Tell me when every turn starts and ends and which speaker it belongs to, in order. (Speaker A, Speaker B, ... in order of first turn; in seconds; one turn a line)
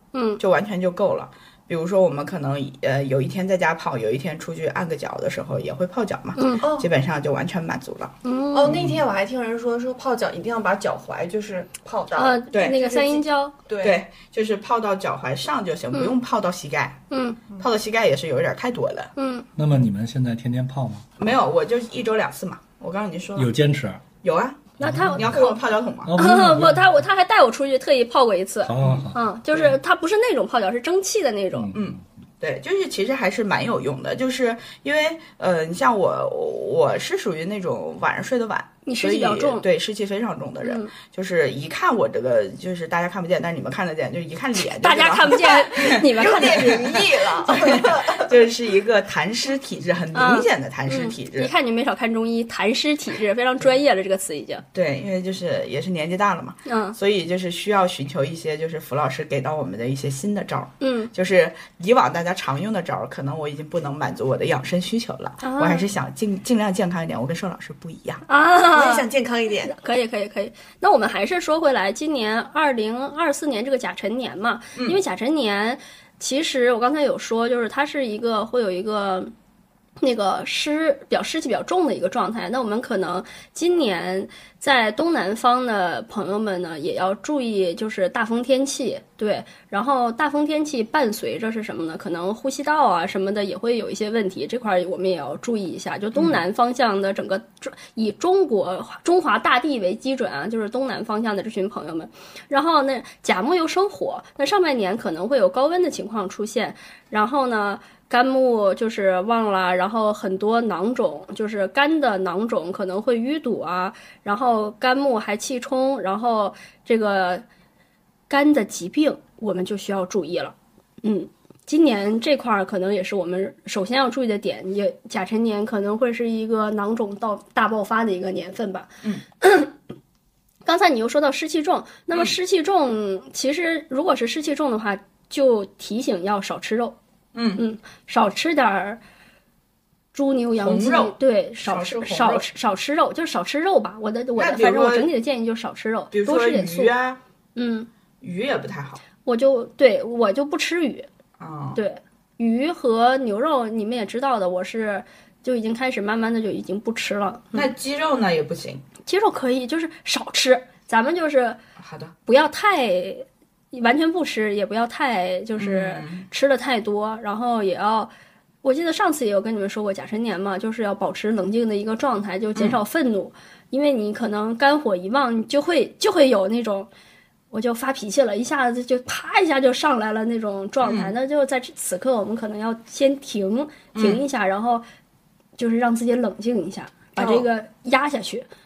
Speaker A: 0.1-0.4
Speaker B: 0.4-8.2
Speaker A: 6.4-6.6
Speaker C: 6.6-6.9
Speaker A: 8.2-8.8
Speaker C: 8.5-14.0
Speaker B: 8.7-9.0
Speaker A: 12.2-13.5
Speaker B: 12.5-12.8
Speaker B: 13.8-17.0
Speaker A: 17.1-17.4
Speaker B: 17.6-19.1
Speaker A: 19.2-19.5
Speaker D: 19.6-21.1
Speaker B: 21.2-23.5
Speaker D: 23.4-24.0
Speaker B: 24.2-26.1
Speaker D: 24.8-25.5
Speaker A: 24.8-25.6
Speaker D: 26.1-27.0
Speaker A: 26.1-31.7
Speaker D: 28.6-29.2
Speaker B: 28.8-29.1
Speaker B: 31.7-51.5
Speaker A: 38.9-39.7
Speaker A: 40.6-40.9
Speaker A: 44.8-47.0
Speaker C: 46.1-48.3
Speaker A: 50.1-54.6
Speaker B: 54.7-68.2
Speaker A: 56.7-57.0
Speaker A: 60.8-61.1
Speaker A: 65.4-65.9
Speaker A: 68.3-69.1
Speaker C: 68.7-69.8
Speaker A: 69.7-79.3
Speaker B: 74.8-75.0
Speaker A: 80.0-117.4
Speaker A: 118.3-129.7
Speaker A: 130.7-137.0
Speaker B: 137.3-137.6
Speaker A: 137.6-139.0
Speaker A: 140.1-146.9
Speaker B: 140.6-142.5
Speaker B: 144.4-145.1
Speaker B: 146.1-147.2
Speaker A: 147.6-147.9
Speaker B: 148.2-149.0
Speaker A: 149.2-151.1
Speaker B: 151.4-151.8
Speaker A: 151.8-157.7
Speaker B: 157.5-158.8
Speaker A: 159.1-161.6
Speaker B: 161.8-162.2
Speaker A: 162.3-168.1
Speaker B: 165.6-166.3
Speaker A: 168.6-176.9
Speaker A: 177.5-184.8
Speaker B: 180.8-181.1
Speaker B: 183.9-184.2
Speaker A: 185.6-188.5
Speaker B: 187.2-187.5